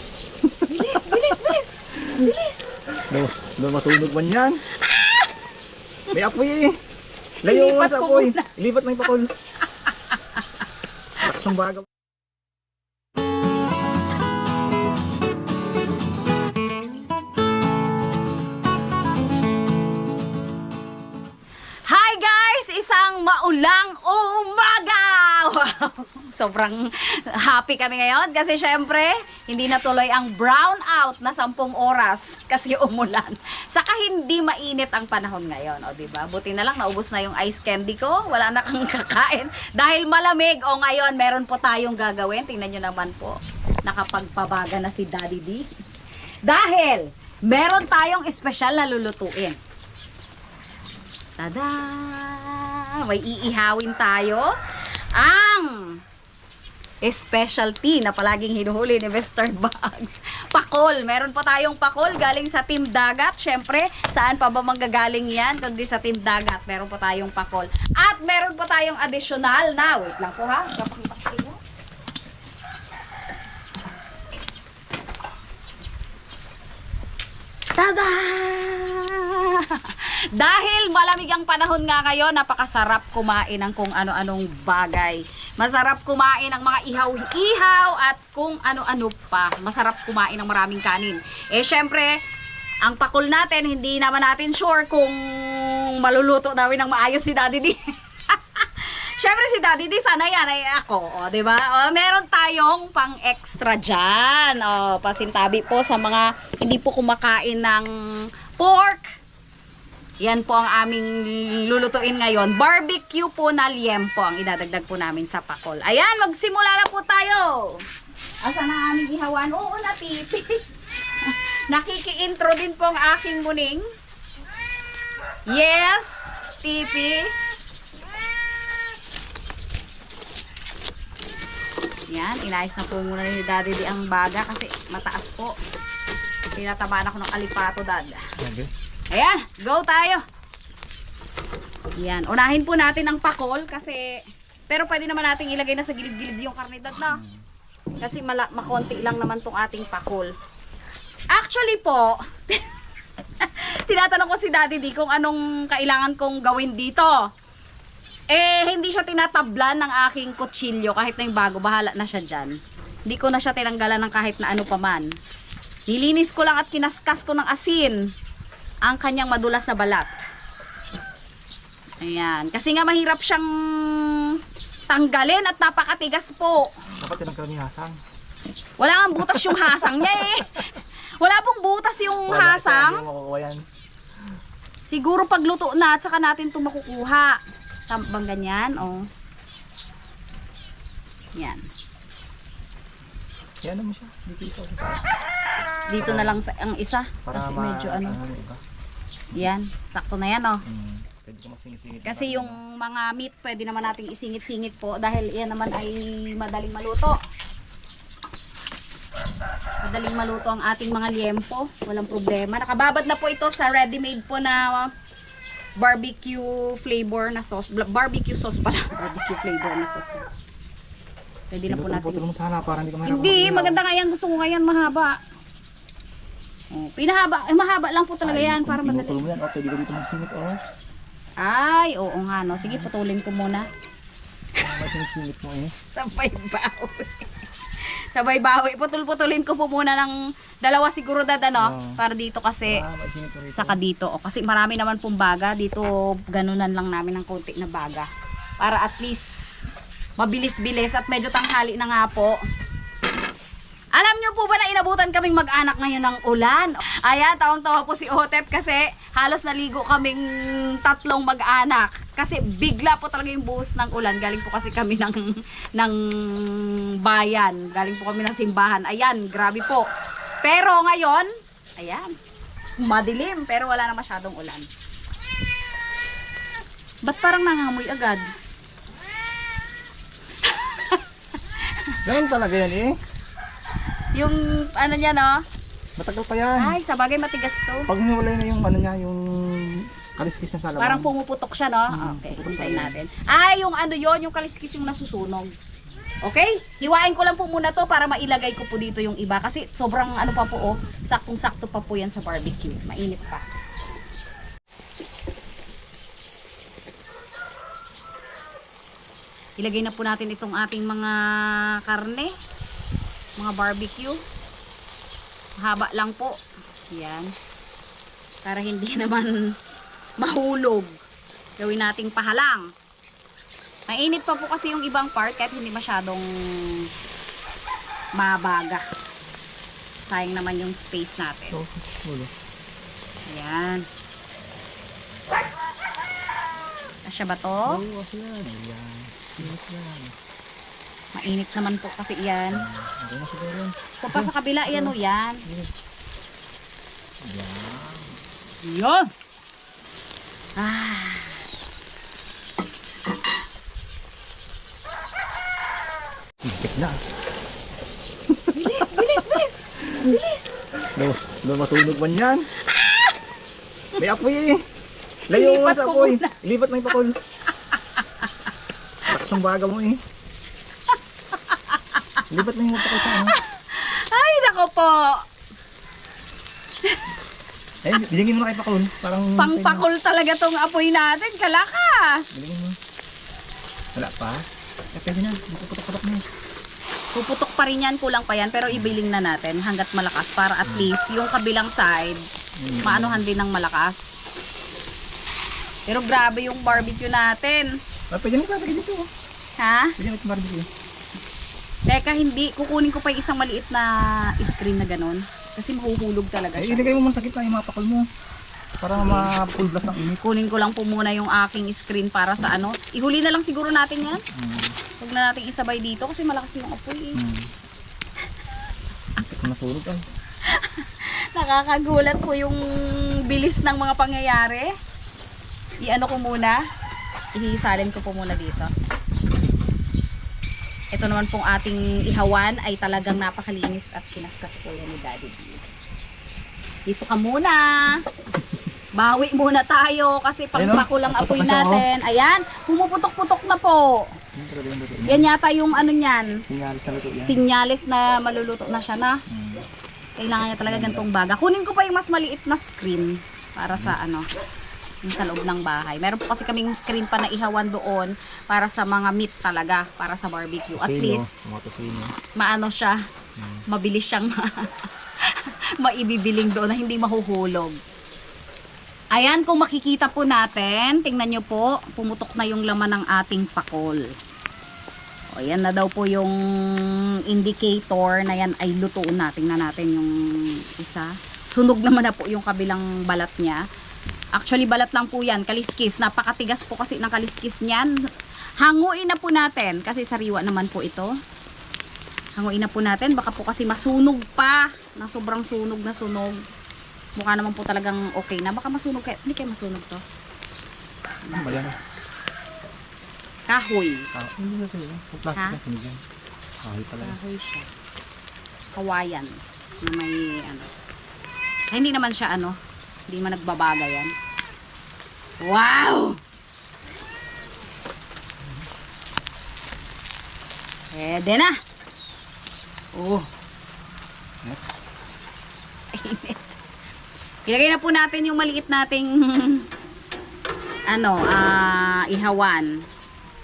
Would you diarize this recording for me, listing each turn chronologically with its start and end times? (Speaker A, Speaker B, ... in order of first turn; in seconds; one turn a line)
Speaker A: 0.4-1.6
Speaker B: 0.7-2.8
Speaker A: 3.1-4.6
Speaker B: 4.7-5.3
Speaker A: 6.1-6.8
Speaker B: 7.4-8.5
Speaker A: 7.4-9.3
Speaker B: 9.8-10.4
Speaker A: 11.2-11.8
Speaker B: 21.9-45.6
Speaker B: 46.5-49.6
Speaker B: 51.4-54.5
Speaker B: 55.2-55.9
Speaker B: 57.0-71.6
Speaker B: 77.8-92.1
Speaker B: 92.8-97.8
Speaker B: 98.3-107.9
Speaker B: 108.6-109.1
Speaker B: 110.2-117.8
Speaker B: 118.4-120.6
Speaker B: 121.2-123.8
Speaker B: 125.5-127.3
Speaker B: 132.1-135.5
Speaker B: 136.6-138.2
Speaker A: 138.4-138.7
Speaker B: 139.1-140.2
Speaker B: 142.0-147.2
Speaker A: 147.1-147.4
Speaker B: 148.0-150.3
Speaker B: 151.3-152.6
Speaker B: 153.4-157.2
Speaker B: 158.3-162.5
Speaker B: 163.1-165.1
Speaker B: 165.9-168.0
Speaker B: 168.8-170.1
Speaker B: 172.0-176.7
Speaker A: 177.0-178.0
Speaker B: 178.8-183.0
Speaker A: 182.2-183.6
Speaker B: 184.9-189.1
Speaker B: 191.3-191.6
Speaker A: 193.6-195.1
Speaker B: 195.9-198.2
Speaker A: 196.0-196.4
Speaker A: 197.2-198.6
Speaker B: 199.3-200.6
Speaker A: 200.7-202.6
Speaker B: 202.0-207.2
Speaker B: 209.8-214.9
Speaker B: 215.8-220.2
Speaker B: 221.5-222.2
Speaker A: 221.7-223.8
Speaker B: 223.0-225.2
Speaker B: 226.7-229.3
Speaker A: 228.2-230.6
Speaker B: 231.4-233.7
Speaker A: 234.6-235.7
Speaker B: 235.9-237.3
Speaker B: 237.9-242.8
Speaker A: 241.6-242.0
Speaker A: 242.7-243.8
Speaker B: 243.5-248.1
Speaker B: 248.6-249.6
Speaker B: 250.2-252.4
Speaker B: 254.0-269.9
Speaker B: 270.4-272.1
Speaker B: 272.8-274.7
Speaker B: 277.0-278.3
Speaker B: 280.4-281.0
Speaker B: 281.6-281.9
Speaker A: 282.0-282.9
Speaker B: 284.1-285.4
Speaker A: 286.0-286.8
Speaker B: 286.6-287.9
Speaker A: 287.9-291.1
Speaker B: 290.8-295.5
Speaker A: 291.9-292.9
Speaker B: 296.2-303.4
Speaker B: 309.6-312.3
Speaker B: 313.4-314.2
Speaker B: 315.6-316.4
Speaker B: 316.9-317.3
Speaker B: 318.4-319.4
Speaker B: 320.2-321.0
Speaker B: 321.6-322.7
Speaker B: 323.9-326.9
Speaker B: 328.2-328.8
Speaker B: 330.0-331.6
Speaker A: 331.5-332.3
Speaker B: 333.3-333.8
Speaker B: 337.0-337.8
Speaker A: 337.6-340.1
Speaker B: 341.1-342.6
Speaker A: 342.5-344.9
Speaker B: 344.0-345.4
Speaker A: 345.4-345.7
Speaker A: 347.2-348.1
Speaker B: 348.6-349.1
Speaker B: 350.6-351.4
Speaker A: 356.4-357.0
Speaker A: 358.3-359.4
Speaker B: 358.5-360.6
Speaker A: 360.9-362.5
Speaker B: 362.6-363.1
Speaker A: 364.0-364.6
Speaker B: 365.3-366.3
Speaker A: 365.3-367.1
Speaker B: 367.7-368.3
Speaker A: 369.0-370.0
Speaker B: 370.9-372.2
Speaker A: 372.3-373.4
Speaker B: 372.8-375.2
Speaker A: 377.8-379.9
Speaker B: 379.4-382.3
Speaker A: 382.3-382.8
Speaker A: 383.9-386.2
Speaker B: 387.1-392.2
Speaker A: 390.6-390.9
Speaker A: 392.6-393.2
Speaker B: 392.8-394.0
Speaker B: 395.9-397.7
Speaker A: 396.7-397.0
Speaker A: 398.1-399.1
Speaker B: 399.6-399.9
Speaker A: 400.0-400.7
Speaker B: 401.9-407.0
Speaker A: 406.6-408.1
Speaker A: 408.8-410.2
Speaker B: 408.9-409.3
Speaker B: 410.0-414.2
Speaker A: 414.3-414.7
Speaker B: 415.0-417.2
Speaker A: 417.1-417.5
Speaker A: 419.2-420.0
Speaker B: 420.5-424.7
Speaker B: 425.8-426.6
Speaker B: 427.4-428.7
Speaker B: 430.9-435.6
Speaker B: 436.9-438.0
Speaker B: 438.9-444.1
Speaker A: 440.5-441.9
Speaker A: 444.3-445.3
Speaker B: 445.1-446.4
Speaker A: 446.5-447.4
Speaker B: 447.2-449.2
Speaker A: 449.3-449.6
Speaker B: 450.2-454.2
Speaker A: 450.6-451.1
Speaker B: 455.0-461.3
Speaker A: 460.7-462.1
Speaker B: 462.4-463.0
Speaker A: 463.4-463.6
Speaker B: 463.7-464.7
Speaker B: 465.3-467.8
Speaker B: 469.1-474.0
Speaker B: 475.3-483.6
Speaker B: 484.3-487.9
Speaker B: 488.6-491.1
Speaker B: 492.4-496.4
Speaker B: 497.2-500.0
Speaker B: 501.2-501.7
Speaker A: 501.3-501.8
Speaker B: 503.5-504.1
Speaker A: 504.1-506.0
Speaker A: 506.6-507.2
Speaker B: 507.0-507.7
Speaker B: 508.7-510.7
Speaker B: 511.6-512.5
Speaker B: 513.1-514.1
Speaker B: 515.4-516.2
Speaker B: 520.9-521.5
Speaker B: 523.0-523.2
Speaker A: 524.4-524.8
Speaker B: 525.9-526.5
Speaker B: 527.5-529.6
Speaker B: 530.9-532.7